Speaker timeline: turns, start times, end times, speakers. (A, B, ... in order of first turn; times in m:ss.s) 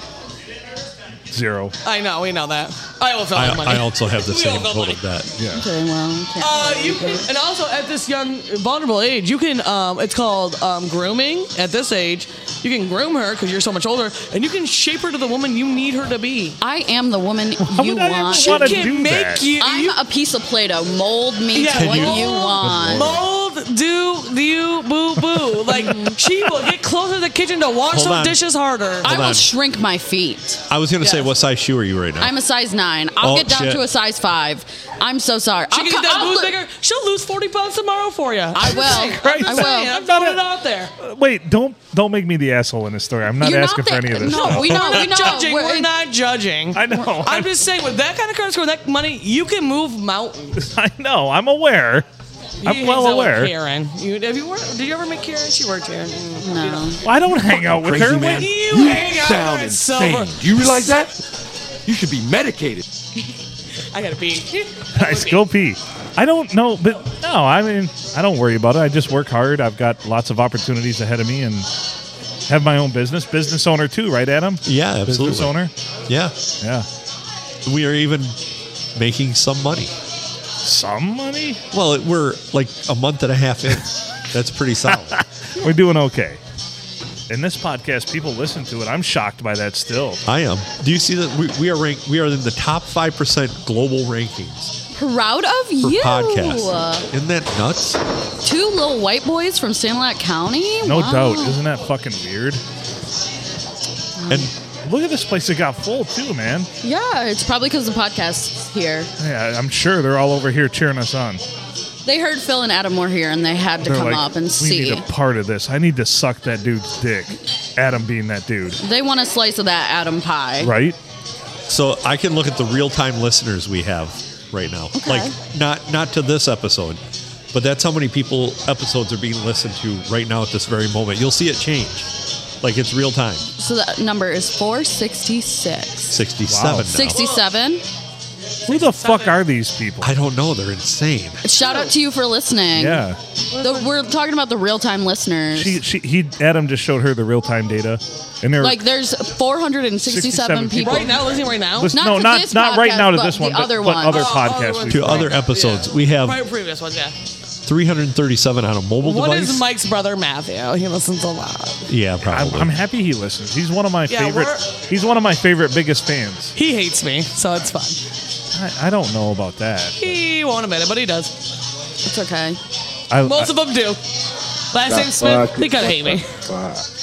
0:01.3-0:01.8 A
0:01.8-0:05.0 B
0:03.3-0:05.3 C
0:05.4-0:05.7 A
0:05.5-0:07.3 D
0:06.4-0:16.6 B
0:16.6-0:18.9 D
0:17.6-0:19.5 A
0:18.3-0:20.0 B
0:19.6-0:23.1 D
0:21.5-0:29.1 B
0:21.7-0:23.2 C
0:22.6-0:23.0 A
0:25.6-0:26.1 A
0:27.9-0:28.4 C
0:29.0-0:29.5 C
0:29.0-0:30.6 D
0:30.7-0:32.3 C
0:31.0-0:31.3 B
0:32.2-0:36.6 D
0:33.2-0:33.9 C
0:35.7-0:40.9 B
0:38.6-0:39.9 D
0:38.7-0:40.4 A
0:41.0-0:45.4 A
0:43.4-0:45.9 D
0:44.2-0:50.6 B
0:46.7-0:47.5 A
0:50.6-0:52.1 A
0:52.6-1:01.1 B
0:52.6-0:53.5 A
0:56.4-0:57.0 D
0:57.0-0:58.6 A
0:57.7-1:01.1 E
1:01.9-1:02.8 E
1:03.9-1:05.5 B
1:05.0-1:11.7 A
1:12.5-1:15.7 A
1:14.7-1:15.6 C
1:16.1-1:16.3 C
1:16.6-1:16.9 A
1:17.7-1:18.4 C
1:19.0-1:19.9 C
1:20.6-1:21.6 A
1:21.7-1:25.2 C
1:25.1-1:26.4 A
1:27.3-1:30.2 A
1:30.3-1:34.8 C
1:34.9-1:37.1 D
1:35.8-1:38.0 C
1:38.4-1:41.6 D
1:40.8-1:42.6 A
1:44.2-1:44.5 D
1:44.9-1:46.7 A
1:46.8-1:49.1 D
1:49.2-1:51.4 A
1:52.1-1:55.0 D
1:53.8-1:58.8 A
1:58.8-2:00.7 D
2:00.6-2:01.0 A
2:01.7-2:07.0 C
2:04.9-2:05.4 D
2:07.5-2:12.1 C
2:12.6-2:13.4 C
2:13.6-2:16.2 D
2:16.1-2:17.2 C
2:16.5-2:17.0 A
2:16.7-2:17.8 D
2:17.1-2:17.4 B
2:18.7-2:19.4 B
2:18.7-2:20.1 A
2:20.0-2:21.4 C
2:21.4-2:23.0 D
2:21.6-2:21.9 B
2:22.8-2:23.2 A
2:23.5-2:23.9 B
2:23.6-2:25.8 D
2:25.5-2:28.8 A
2:28.6-2:31.4 D
2:30.0-2:35.4 A
2:30.8-2:32.0 B
2:31.9-2:34.4 D
2:34.0-2:37.1 B
2:34.9-2:36.4 C
2:37.7-2:39.6 C
2:39.0-2:41.8 B
2:41.9-2:42.8 C
2:42.2-2:46.5 A
2:44.1-2:44.6 B
2:46.6-2:48.0 B
2:48.5-2:50.2 A
2:50.0-2:51.3 B
2:52.0-2:52.6 D
2:53.1-2:53.5 A
2:53.2-2:54.0 B
2:54.7-2:56.3 B
2:55.0-2:56.8 E